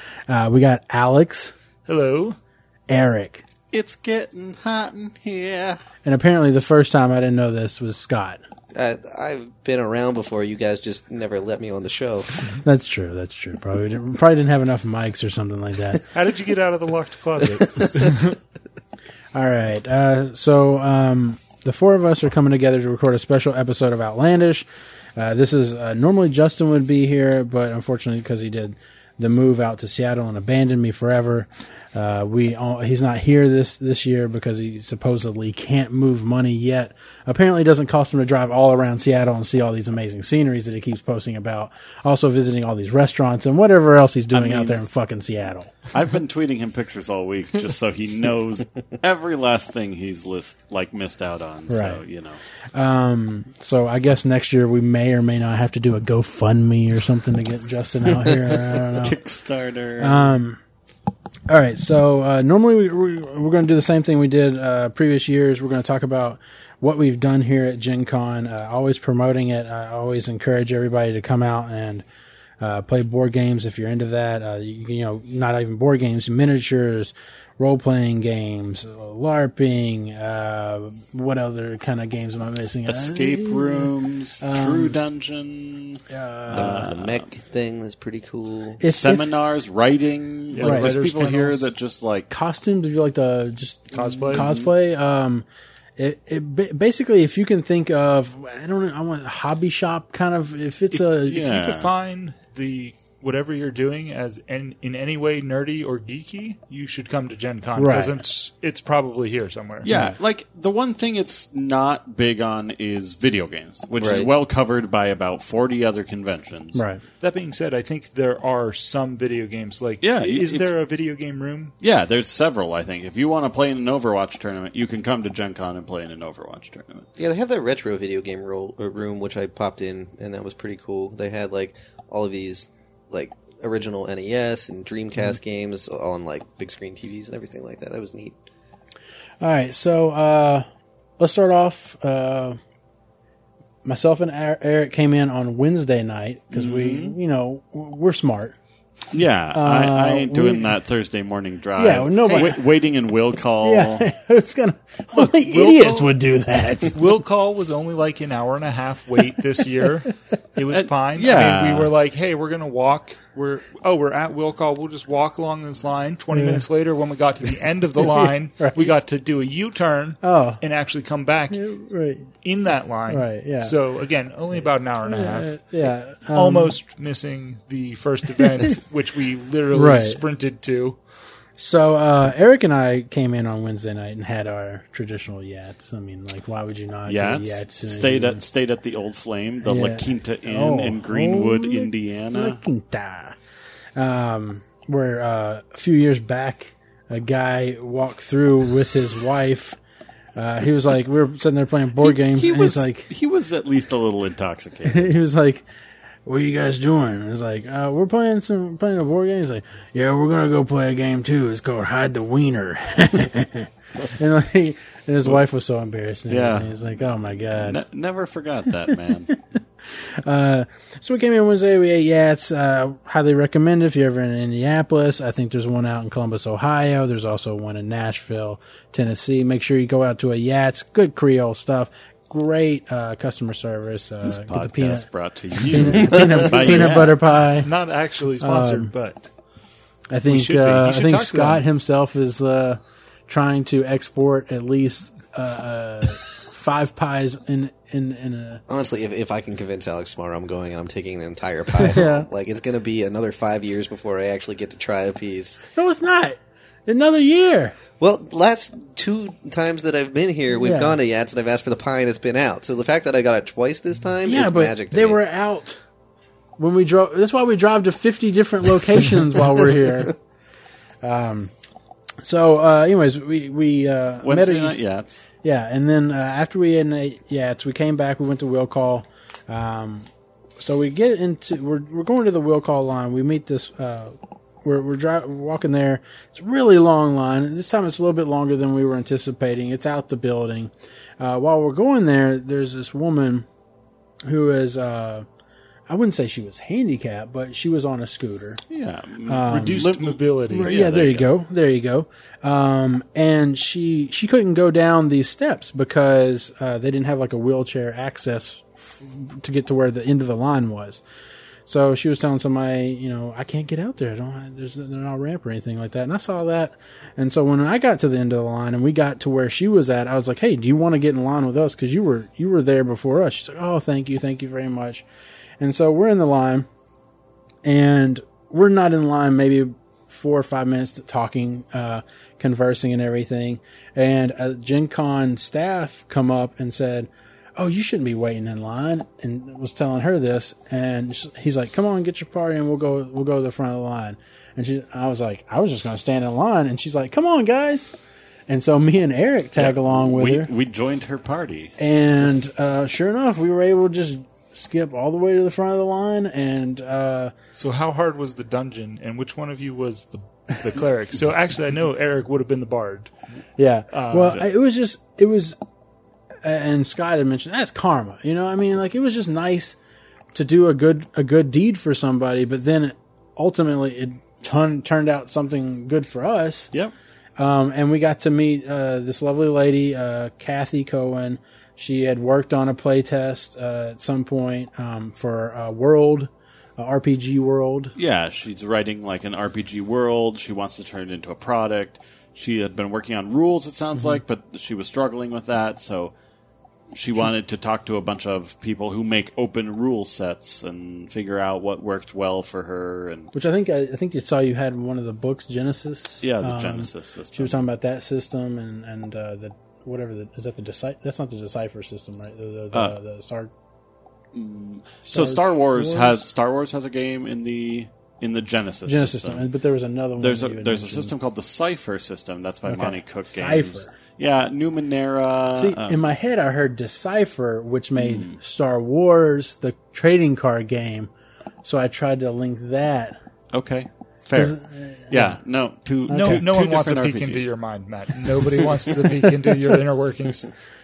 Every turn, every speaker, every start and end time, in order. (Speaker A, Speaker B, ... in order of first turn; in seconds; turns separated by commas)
Speaker A: 0.3-1.5, Speaker B: 1.9-2.4, Speaker A: 2.9-3.4, Speaker C: 3.7-5.8, Speaker A: 6.0-8.4, Speaker D: 8.7-12.5, Speaker A: 12.6-16.0, Speaker B: 16.1-18.4, Speaker A: 19.3-45.7, Speaker C: 44.3-44.8, Speaker C: 45.9-52.4, Speaker A: 51.7-52.0, Speaker A: 52.7-59.2, Speaker C: 58.1-60.3, Speaker A: 60.0-60.6, Speaker A: 61.5-72.0, Speaker A: 72.6-85.0, Speaker C: 82.9-87.3, Speaker A: 86.1-86.9, Speaker D: 86.5-88.8, Speaker A: 88.8-89.3, Speaker C: 88.8-92.3, Speaker B: 90.5-91.7, Speaker A: 90.6-91.4, Speaker A: 92.3-95.5, Speaker B: 93.9-94.5, Speaker C: 94.0-94.7, Speaker A: 96.0-101.5, Speaker B: 100.9-109.9, Speaker C: 101.3-101.9, Speaker A: 107.8-108.2, Speaker C: 109.8-116.8, Speaker A: 109.9-110.2, Speaker D: 114.0-114.3, Speaker A: 116.7-117.0, Speaker B: 117.2-121.7, Speaker C: 120.0-120.7, Speaker C: 121.8-127.1, Speaker D: 127.2-138.4, Speaker A: 139.4-140.7, Speaker A: 141.2-142.6, Speaker A: 143.8-148.6, Speaker C: 146.5-147.2, Speaker C: 149.1-154.1, Speaker A: 149.5-150.7, Speaker A: 151.8-152.6, Speaker A: 153.6-157.0, Speaker B: 155.4-156.1, Speaker B: 156.9-171.6, Speaker C: 160.7-161.9, Speaker A: 166.3-166.6, Speaker A: 168.2-168.9, Speaker A: 170.2-170.6, Speaker A: 171.5-172.3, Speaker B: 172.4-175.7, Speaker A: 173.1-173.7, Speaker A: 175.0-176.8, Speaker B: 176.3-181.0, Speaker A: 179.7-180.2, Speaker A: 181.6-188.4, Speaker C: 187.1-192.6, Speaker A: 189.6-193.4, Speaker A: 194.0-199.8, Speaker A: 200.4-203.1, Speaker C: 202.0-205.1, Speaker A: 204.9-205.7, Speaker A: 206.3-217.8, Speaker C: 216.3-219.3, Speaker A: 219.3-235.1, Speaker C: 234.2-237.4, Speaker A: 235.6-237.7, Speaker B: 237.6-239.3, Speaker A: 238.4-238.9, Speaker A: 240.1-248.6, Speaker B: 240.3-241.6, Speaker D: 248.7-255.6, Speaker A: 251.8-252.3, Speaker A: 255.7-257.8, Speaker D: 258.0-265.2, Speaker A: 260.6-261.0, Speaker A: 264.2-265.8, Speaker A: 266.6-270.1, Speaker A: 271.0-271.5, Speaker A: 272.2-274.8, Speaker C: 274.2-275.3, Speaker A: 275.4-280.1, Speaker A: 280.6-293.5, Speaker A: 294.3-295.3, Speaker A: 295.9-298.6, Speaker C: 298.7-301.3, Speaker A: 299.3-299.9, Speaker B: 299.5-300.7, Speaker A: 300.5-311.0, Speaker A: 311.7-325.1, Speaker A: 325.6-326.7, Speaker A: 327.6-347.9, Speaker A: 348.5-350.5, Speaker C: 349.6-351.7, Speaker A: 351.8-357.3, Speaker B: 357.5-363.1, Speaker A: 363.6-365.6, Speaker B: 363.9-364.4, Speaker A: 366.4-369.8, Speaker A: 370.3-376.7, Speaker A: 377.4-387.9, Speaker C: 388.0-396.1, Speaker C: 396.9-403.3, Speaker A: 403.3-413.5, Speaker C: 406.2-407.6, Speaker C: 414.3-419.5, Speaker A: 415.1-416.2, Speaker A: 418.9-421.1, Speaker C: 420.2-426.1, Speaker A: 422.7-423.9, Speaker A: 425.6-431.1, Speaker C: 428.0-428.4, Speaker A: 431.6-433.2, Speaker C: 433.5-434.6, Speaker A: 434.3-435.4, Speaker C: 435.1-437.5, Speaker A: 436.1-436.5, Speaker B: 436.1-440.5, Speaker C: 438.4-439.1